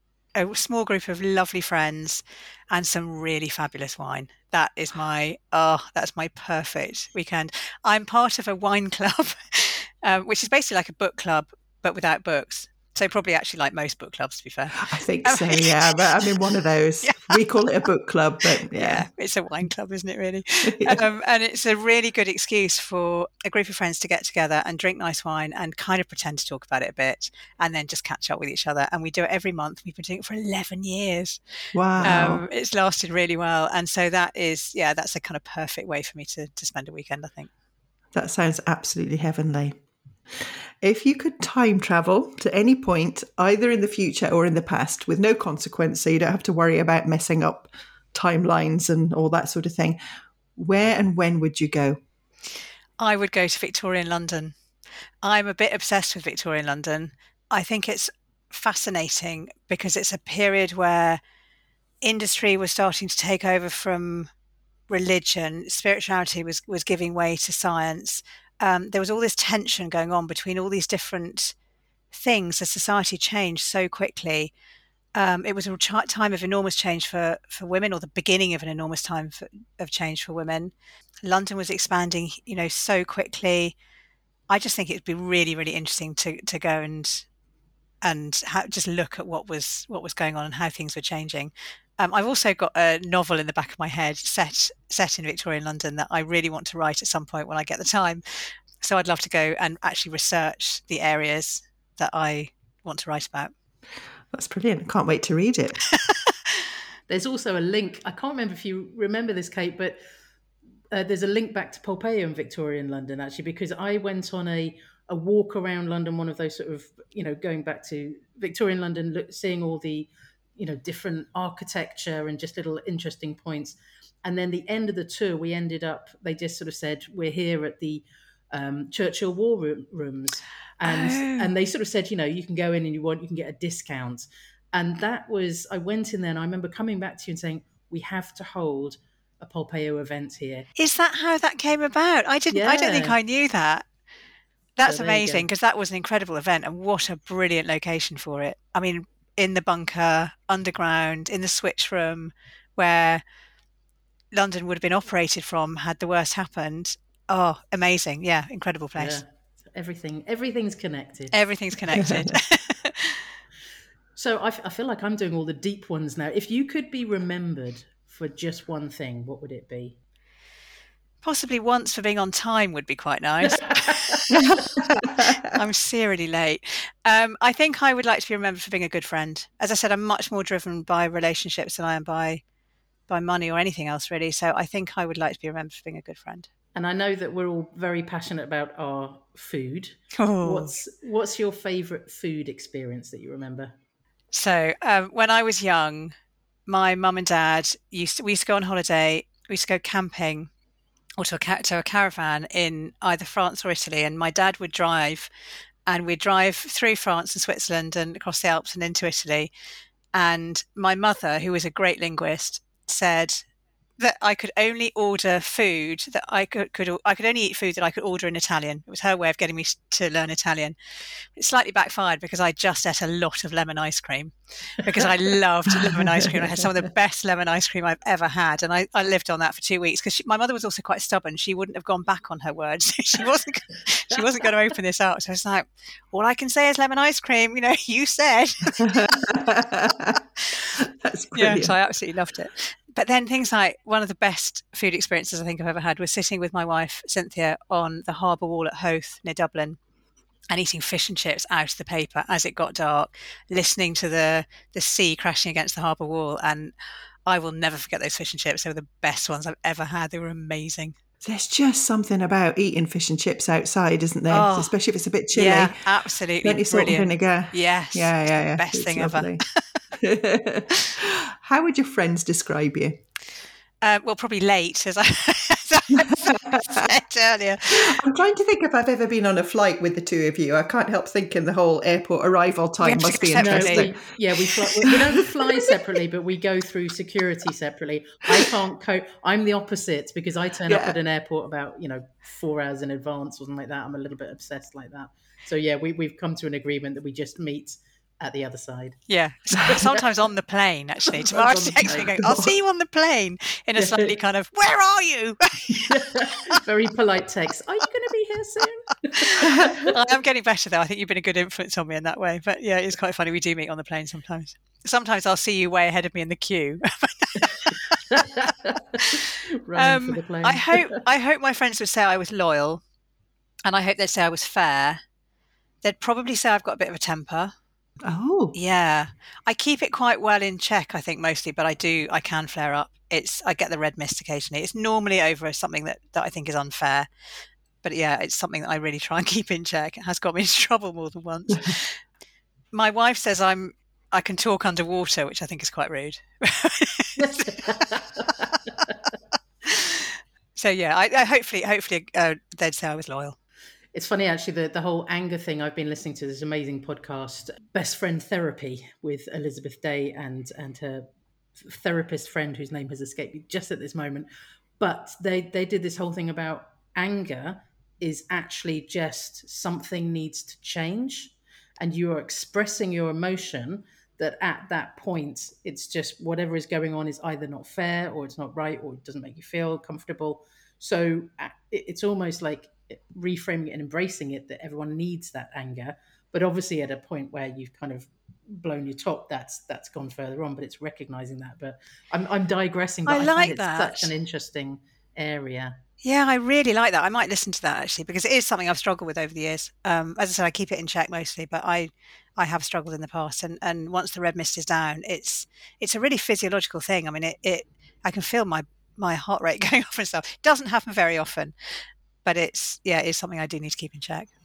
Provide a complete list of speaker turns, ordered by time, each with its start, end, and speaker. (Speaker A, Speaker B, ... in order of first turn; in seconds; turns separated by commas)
Speaker A: 0.3-16.2, Speaker B: 14.7-19.1, Speaker A: 17.0-17.4, Speaker A: 18.7-37.5, Speaker B: 20.6-21.0, Speaker B: 31.7-32.4, Speaker B: 38.1-39.7, Speaker B: 40.4-50.0, Speaker B: 50.5-52.0, Speaker A: 53.0-54.5, Speaker A: 55.2-61.2, Speaker A: 62.0-64.3, Speaker A: 64.9-71.5, Speaker A: 72.1-74.5, Speaker A: 75.1-80.7, Speaker A: 81.2-83.7, Speaker A: 84.5-87.2, Speaker A: 88.0-103.5, Speaker B: 104.3-105.8, Speaker A: 106.0-106.3, Speaker C: 107.1-110.0, Speaker C: 110.9-140.7, Speaker A: 130.8-131.5, Speaker A: 140.8-143.8, Speaker C: 142.5-143.2, Speaker A: 144.8-153.2, Speaker C: 144.8-145.5, Speaker A: 154.3-159.2, Speaker C: 159.0-161.3, Speaker A: 161.3-163.3, Speaker C: 164.2-170.0, Speaker A: 171.2-182.4, Speaker C: 173.8-174.2, Speaker B: 174.3-175.3, Speaker A: 183.1-186.5, Speaker C: 186.7-193.7, Speaker A: 190.2-190.7, Speaker A: 194.3-196.1, Speaker A: 196.7-200.5, Speaker A: 201.2-205.3, Speaker A: 205.9-209.5, Speaker A: 210.1-213.4, Speaker A: 214.0-220.8, Speaker A: 221.3-239.1, Speaker B: 225.9-226.3, Speaker B: 238.8-240.2, Speaker B: 240.8-241.7, Speaker A: 241.3-249.8, Speaker A: 250.5-256.7, Speaker A: 257.2-260.9, Speaker B: 261.2-265.8, Speaker A: 264.3-264.7, Speaker A: 265.3-269.8, Speaker B: 266.4-273.0, Speaker A: 273.8-278.0, Speaker B: 276.3-276.8, Speaker B: 277.7-285.7, Speaker A: 282.8-283.9, Speaker C: 283.4-299.0, Speaker B: 290.7-290.9, Speaker A: 299.1-306.6, Speaker C: 299.6-300.0, Speaker C: 301.1-302.5, Speaker C: 303.8-304.1, Speaker C: 305.7-309.9, Speaker A: 309.2-318.2, Speaker C: 318.0-321.0, Speaker A: 319.0-322.8, Speaker A: 323.6-325.0, Speaker A: 325.8-327.5, Speaker B: 328.0-328.5, Speaker A: 328.5-337.1, Speaker A: 337.8-342.0, Speaker A: 342.7-347.8, Speaker C: 347.2-348.9, Speaker A: 349.6-353.4, Speaker C: 353.9-361.1, Speaker C: 361.6-364.3, Speaker C: 364.8-395.8, Speaker A: 393.1-394.1, Speaker A: 396.0-414.3